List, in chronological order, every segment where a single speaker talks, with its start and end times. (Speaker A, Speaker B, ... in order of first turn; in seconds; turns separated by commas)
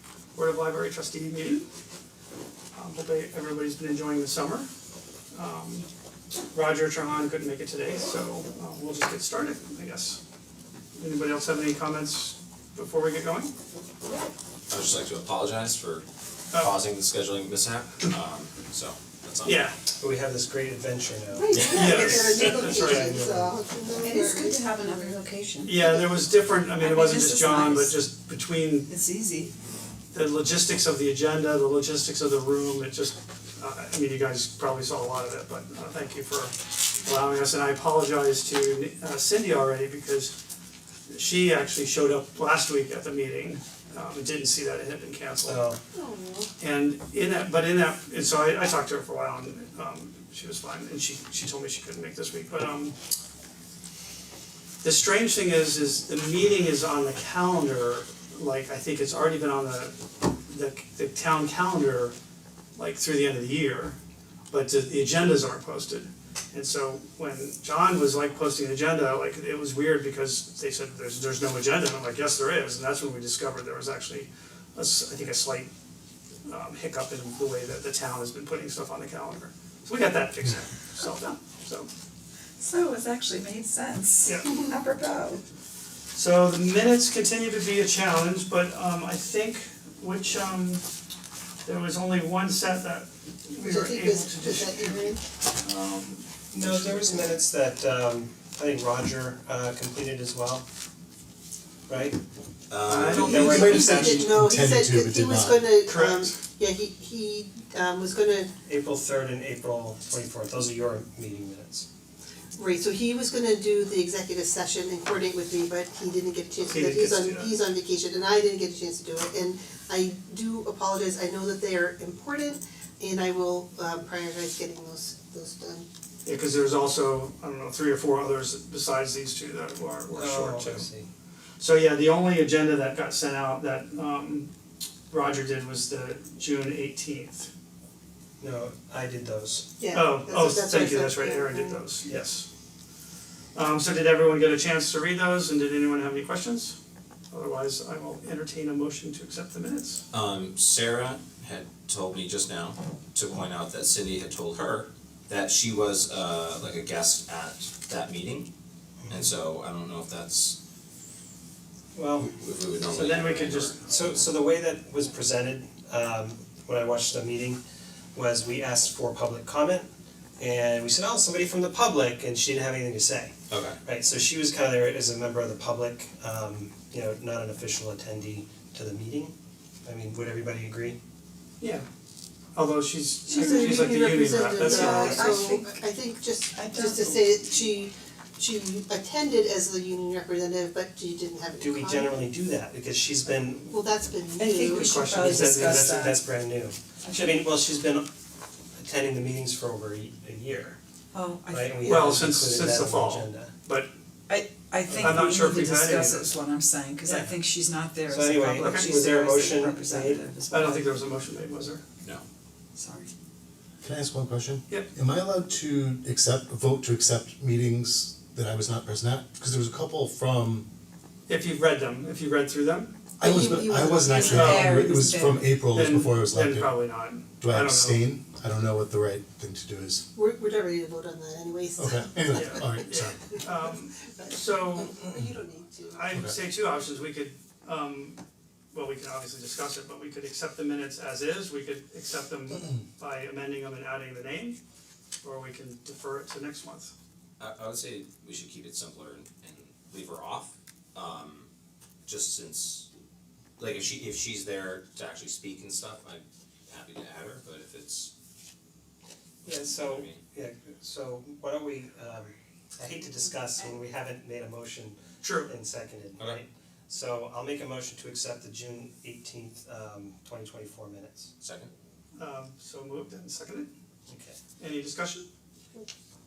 Speaker A: 0.3-1.7, Speaker A: 2.7-4.7, Speaker A: 5.3-5.9, Speaker A: 6.5-10.2, Speaker A: 10.9-13.5, Speaker B: 14.7-19.6, Speaker A: 19.4-19.7, Speaker C: 20.0-21.6, Speaker D: 21.3-25.2, Speaker B: 21.5-22.4, Speaker A: 21.7-23.1, Speaker C: 22.4-23.5, Speaker E: 23.9-26.0, Speaker A: 25.6-28.9, Speaker E: 26.8-28.0, Speaker E: 28.9-29.5, Speaker A: 30.1-40.3, Speaker A: 41.1-45.6, Speaker C: 45.4-45.8, Speaker D: 45.9-46.5, Speaker A: 46.6-52.9, Speaker A: 54.8-59.9, Speaker A: 60.5-62.1, Speaker A: 62.8-64.0, Speaker A: 64.5-75.7, Speaker A: 76.5-81.9, Speaker E: 82.6-85.4, Speaker A: 84.2-84.5, Speaker A: 86.1-90.8, Speaker A: 91.6-97.3, Speaker D: 93.6-95.2, Speaker C: 96.5-100.6, Speaker C: 101.9-102.2, Speaker B: 102.7-103.5, Speaker A: 102.8-103.6, Speaker D: 102.9-108.5, Speaker C: 103.2-104.3, Speaker F: 103.3-105.7, Speaker A: 105.8-106.4, Speaker C: 108.6-111.8, Speaker D: 112.5-125.8, Speaker A: 116.7-117.5, Speaker A: 126.2-130.8, Speaker C: 130.1-131.1, Speaker A: 131.6-134.5, Speaker A: 135.1-137.5, Speaker C: 138.4-139.7, Speaker D: 139.8-141.8, Speaker A: 139.9-142.5, Speaker A: 143.5-146.8, Speaker A: 147.3-150.0, Speaker B: 150.1-158.5, Speaker C: 159.1-159.3, Speaker B: 159.1-160.6, Speaker C: 161.9-162.3, Speaker B: 162.2-163.8, Speaker A: 162.9-163.8, Speaker C: 163.8-167.6, Speaker C: 168.1-179.3, Speaker B: 173.5-173.8, Speaker C: 179.8-181.0, Speaker A: 181.6-181.8, Speaker A: 182.5-185.4, Speaker D: 183.3-192.2, Speaker E: 183.3-185.9, Speaker E: 186.5-187.3, Speaker C: 191.6-193.8, Speaker D: 193.7-195.1, Speaker E: 194.3-196.3, Speaker A: 194.7-195.9, Speaker C: 195.1-198.1, Speaker E: 197.0-197.4, Speaker C: 198.8-200.8, Speaker E: 201.1-202.1, Speaker C: 201.5-203.5, Speaker A: 201.8-203.9, Speaker E: 204.3-211.0, Speaker C: 204.9-205.3, Speaker A: 204.9-206.3, Speaker C: 207.0-207.4, Speaker C: 208.1-210.3, Speaker A: 208.6-208.9, Speaker A: 210.5-211.8, Speaker E: 212.8-213.1, Speaker F: 213.8-220.7, Speaker A: 221.3-222.9, Speaker F: 223.2-230.1, Speaker D: 223.2-224.6, Speaker E: 224.0-225.6, Speaker A: 224.2-224.7, Speaker A: 225.7-228.1, Speaker D: 230.1-232.9, Speaker F: 231.8-233.4, Speaker A: 232.3-235.0, Speaker D: 234.2-236.1, Speaker A: 235.9-238.2, Speaker A: 238.7-244.6, Speaker A: 245.2-246.9, Speaker B: 247.4-251.5, Speaker B: 252.1-252.9, Speaker B: 253.6-258.1, Speaker C: 259.4-271.3, Speaker B: 259.4-260.2, Speaker A: 265.2-265.5, Speaker B: 271.4-271.7, Speaker A: 272.1-273.7, Speaker C: 274.1-274.4, Speaker A: 274.6-275.3